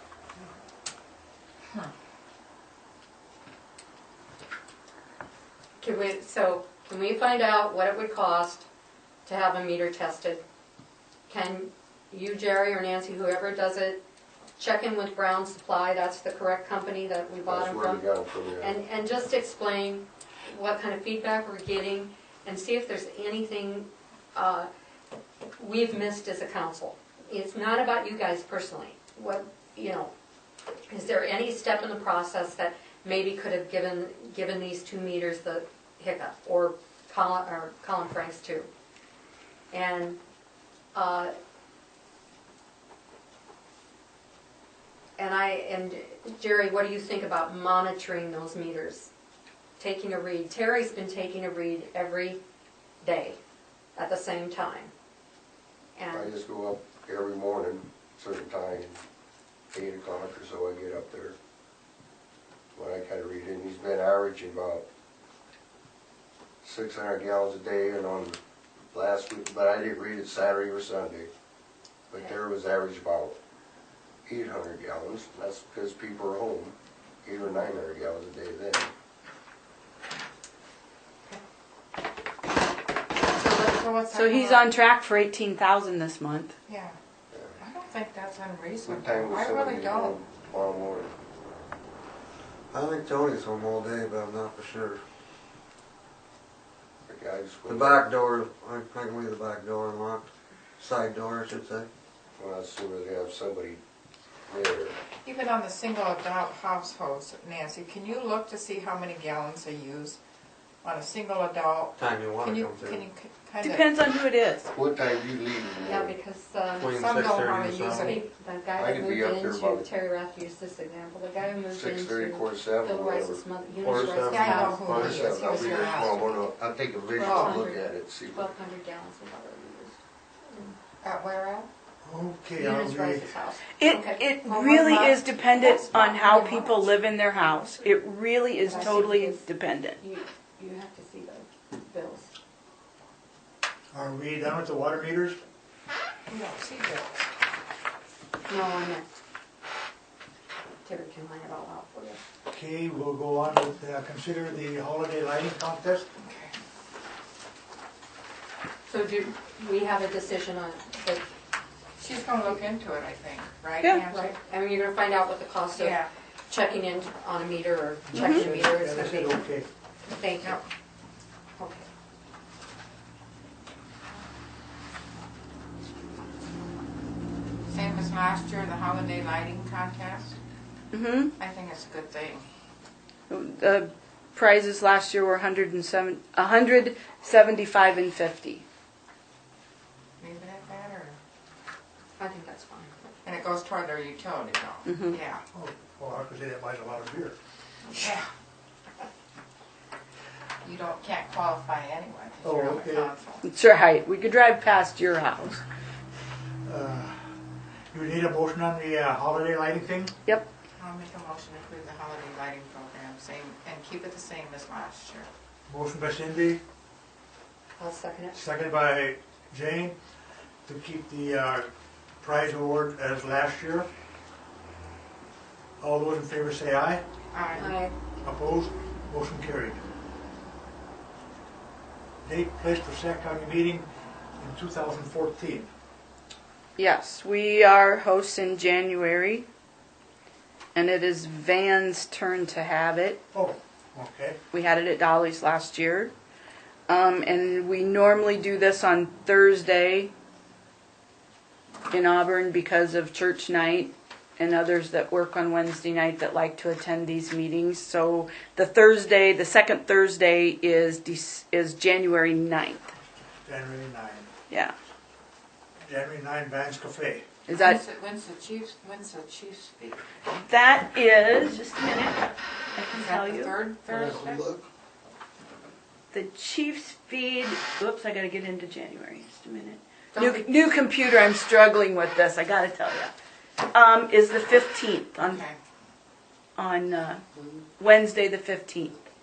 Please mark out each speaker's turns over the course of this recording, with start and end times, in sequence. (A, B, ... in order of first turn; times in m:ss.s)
0:05.8-0:08.7 A
0:09.2-0:10.4 A
0:11.3-0:14.0 A
0:14.6-0:18.1 A
0:17.5-0:18.8 B
0:18.6-0:24.7 A
0:25.6-0:30.1 A
0:30.9-0:38.7 A
0:39.7-0:40.2 A
0:40.9-0:41.3 A
0:45.2-0:49.1 A
0:49.8-0:52.4 A
0:53.0-0:53.4 A
0:54.0-0:54.9 A
0:56.0-0:56.3 A
0:56.1-0:59.0 B
0:59.7-1:01.4 B
1:02.8-1:04.9 B
1:06.6-1:08.4 B
1:08.9-1:11.3 B
1:12.1-1:13.4 B
1:14.3-1:18.9 B
1:23.5-1:24.7 C
1:24.1-1:26.5 D
1:26.7-1:27.0 C
1:27.3-1:27.6 B
1:27.6-1:30.2 C
1:28.8-1:31.1 B
1:32.7-1:35.0 E
1:37.1-1:38.1 B
1:37.7-1:41.9 E
1:42.4-1:43.8 B
1:44.5-1:45.0 B
1:45.2-1:50.2 C
1:50.8-1:54.0 C
1:52.0-1:53.0 E
1:53.6-1:54.7 D
1:54.7-1:56.1 B
1:55.9-1:57.0 A
1:56.8-1:58.2 E
1:57.0-1:58.3 C
1:58.0-2:05.8 A
1:58.8-1:59.9 B
2:01.7-2:03.4 B
2:03.8-2:05.9 E
2:04.2-2:06.3 C
2:05.0-2:08.5 B
2:07.2-2:10.8 A
2:07.2-2:07.5 C
2:11.0-2:11.7 C
2:12.0-2:13.3 F
2:12.6-2:16.8 A
2:13.8-2:20.0 D
2:18.7-2:19.4 A
2:20.0-2:22.3 A
2:23.9-2:25.4 F
2:26.3-2:27.3 C
2:28.5-2:29.1 A
2:30.8-2:32.2 A
2:32.5-2:36.1 F
2:36.2-2:36.5 C
2:38.9-2:41.2 A
2:42.0-2:44.4 C
2:44.1-2:49.5 A
2:45.7-2:46.1 C
2:48.1-2:49.7 F
2:48.1-2:48.5 D
2:50.0-2:50.6 A
2:51.6-2:51.9 A
2:57.7-3:00.4 C
3:00.9-3:01.3 D
3:01.4-3:02.5 C
3:03.3-3:08.6 D
3:10.2-3:11.2 C
3:12.2-3:12.9 A
3:13.2-3:15.4 C
3:14.9-3:15.2 D
3:15.5-3:17.4 F
3:18.0-3:18.3 C
3:20.6-3:23.4 C
3:22.4-3:23.1 F
3:23.4-3:25.6 D
3:26.6-3:27.2 F
3:27.9-3:30.2 F
3:30.8-3:35.3 C
3:35.7-3:36.6 F
3:37.8-3:38.4 A
3:38.3-3:40.0 F
3:40.7-3:41.7 F
3:42.2-3:43.9 F
3:45.8-3:47.0 F
3:47.3-3:47.8 C
3:47.6-3:48.0 A
3:48.2-3:49.8 F
3:52.2-3:53.9 F
3:54.4-3:55.7 F
3:56.8-3:59.5 D
4:00.8-4:03.2 D
4:03.3-4:04.4 F
4:04.5-4:06.1 D
4:06.9-4:10.1 D
4:11.9-4:22.9 D
4:23.5-4:24.3 F
4:25.9-4:27.3 F
4:27.5-4:27.8 D
4:27.5-4:30.1 C
4:30.4-4:33.6 D
4:32.9-4:34.4 C
4:33.9-4:34.6 E
4:36.1-4:45.4 D
4:45.2-4:45.6 C
4:46.6-4:47.2 D
4:47.8-4:49.0 D